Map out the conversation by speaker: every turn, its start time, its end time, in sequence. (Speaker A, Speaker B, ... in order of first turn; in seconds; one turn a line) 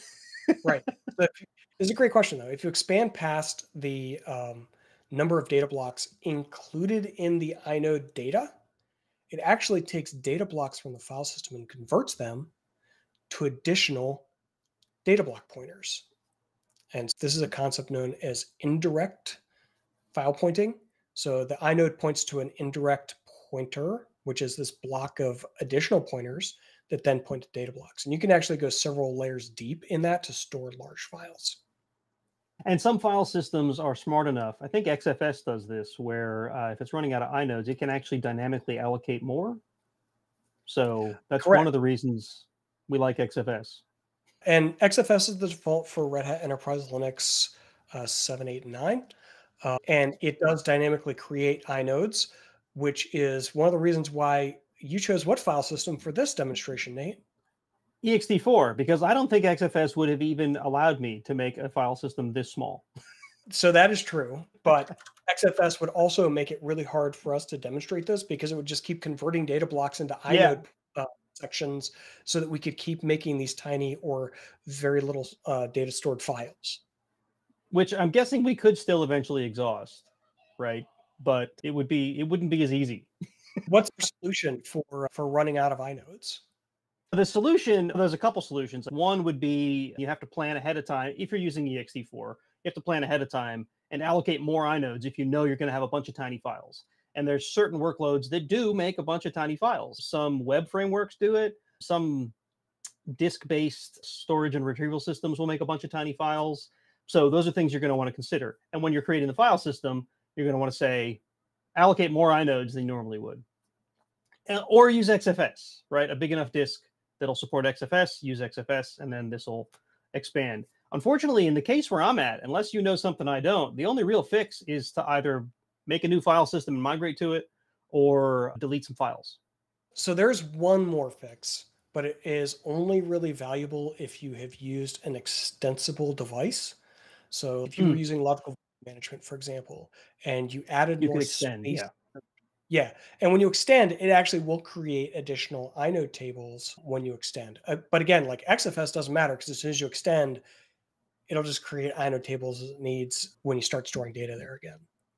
Speaker A: 0.6-8.5
Speaker A: 9.3-12.5
Speaker A: 13.3-14.3
Speaker A: 15.0-16.1
Speaker A: 16.9-19.4
Speaker A: 20.1-31.6
Speaker B: 32.6-39.6
Speaker B: 40.7-43.8
Speaker A: 41.4-41.7
Speaker A: 44.5-57.2
Speaker B: 58.0-62.9
Speaker A: 63.5-76.8
Speaker B: 70.3-70.6
Speaker B: 77.7-80.1
Speaker B: 80.6-83.1
Speaker A: 83.7-86.4
Speaker B: 87.1-102.3
Speaker B: 103.2-111.2
Speaker B: 111.8-113.4
Speaker B: 114.5-129.4
Speaker A: 129.9-136.8
Speaker A: 137.3-141.9
Speaker B: 141.0-141.9
Speaker A: 142.7-150.4
Speaker A: 151.3-154.9